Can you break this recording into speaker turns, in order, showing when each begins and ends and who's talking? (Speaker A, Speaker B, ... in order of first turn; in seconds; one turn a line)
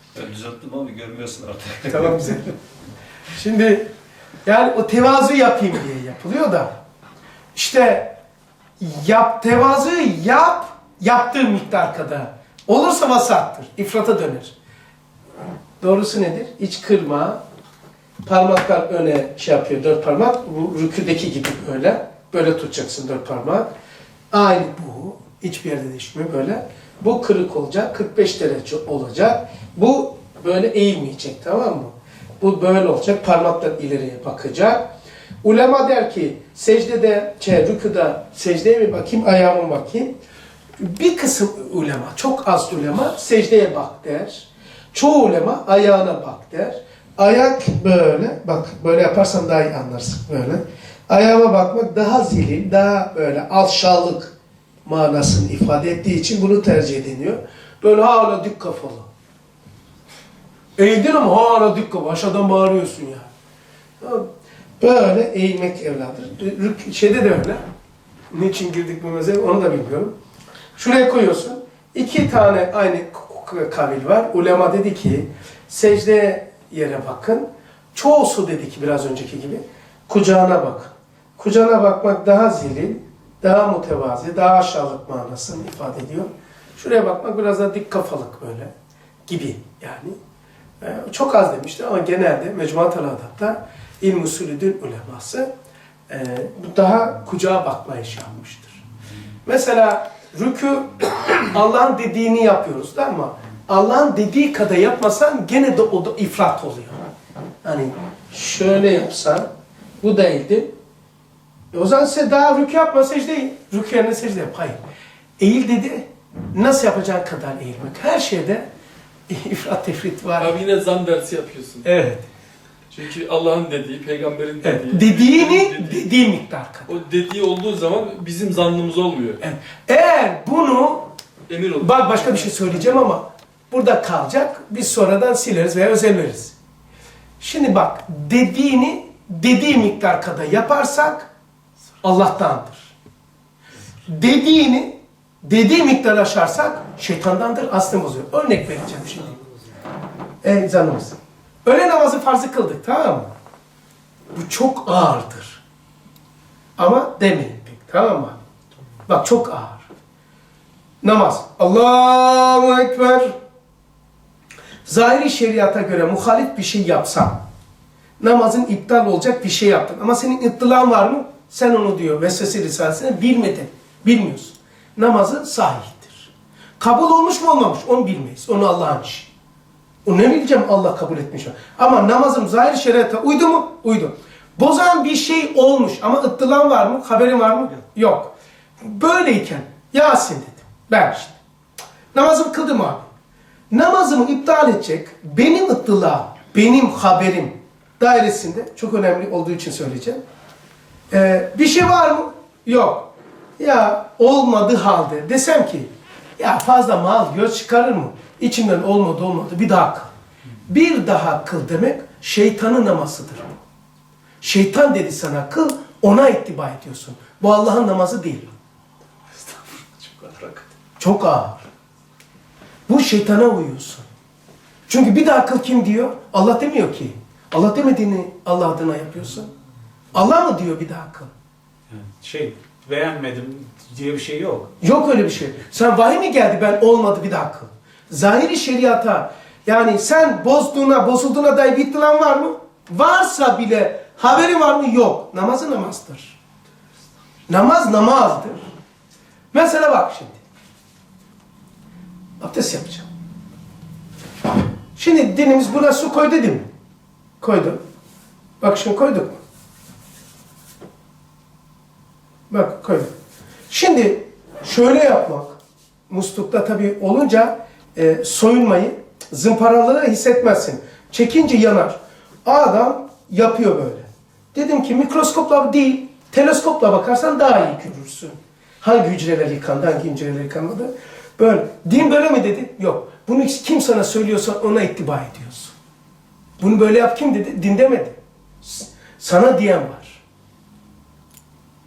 Speaker A: 0.1-2.2
Speaker B: 1.8-2.5
Speaker B: 3.3-3.9
Speaker B: 4.4-6.7
Speaker B: 7.5-8.1
Speaker B: 8.8-14.5
Speaker B: 15.8-17.4
Speaker B: 18.2-23.7
Speaker B: 24.3-34.9
Speaker B: 35.4-40.1
Speaker B: 40.8-54.3
Speaker B: 54.8-59.1
Speaker B: 60.8-63.3
Speaker B: 64.0-64.3
Speaker B: 64.8-67.6
Speaker B: 68.3-70.1
Speaker B: 70.8-88.7
Speaker B: 89.3-90.2
Speaker B: 90.8-95.5
Speaker B: 96.1-98.8
Speaker B: 99.5-107.0
Speaker B: 107.6-109.5
Speaker B: 110.0-110.7
Speaker B: 111.7-114.8
Speaker B: 115.4-118.7
Speaker B: 119.3-120.5
Speaker C: 120.4-121.8
Speaker B: 121.8-122.2
Speaker C: 122.9-126.0
Speaker B: 124.6-126.9
Speaker C: 126.9-129.4
Speaker B: 129.4-131.0
Speaker C: 131.5-133.0
Speaker B: 131.8-136.5
Speaker B: 137.4-141.3
Speaker B: 142.0-142.9
Speaker B: 144.0-149.4
Speaker B: 150.4-153.3
Speaker B: 154.3-155.6
Speaker B: 156.8-158.4
Speaker B: 159.1-159.9
Speaker B: 161.0-163.3
Speaker B: 164.8-167.4
Speaker B: 168.2-179.3
Speaker B: 180.0-191.4
Speaker B: 192.1-193.1
Speaker B: 193.7-200.2
Speaker B: 201.1-210.1
Speaker B: 210.7-213.5
Speaker B: 214.4-218.5
Speaker D: 219.3-220.7
Speaker B: 221.0-221.6
Speaker B: 222.9-224.1
Speaker B: 224.9-229.5
Speaker B: 230.1-231.3
Speaker D: 231.9-234.7
Speaker B: 234.8-246.4
Speaker B: 247.5-248.6
Speaker B: 249.5-250.4
Speaker B: 252.4-253.1
Speaker B: 254.9-256.6
Speaker B: 257.4-257.8
Speaker B: 258.6-259.4
Speaker B: 262.5-263.1
Speaker B: 263.7-265.6
Speaker B: 266.1-285.7
Speaker B: 286.6-290.2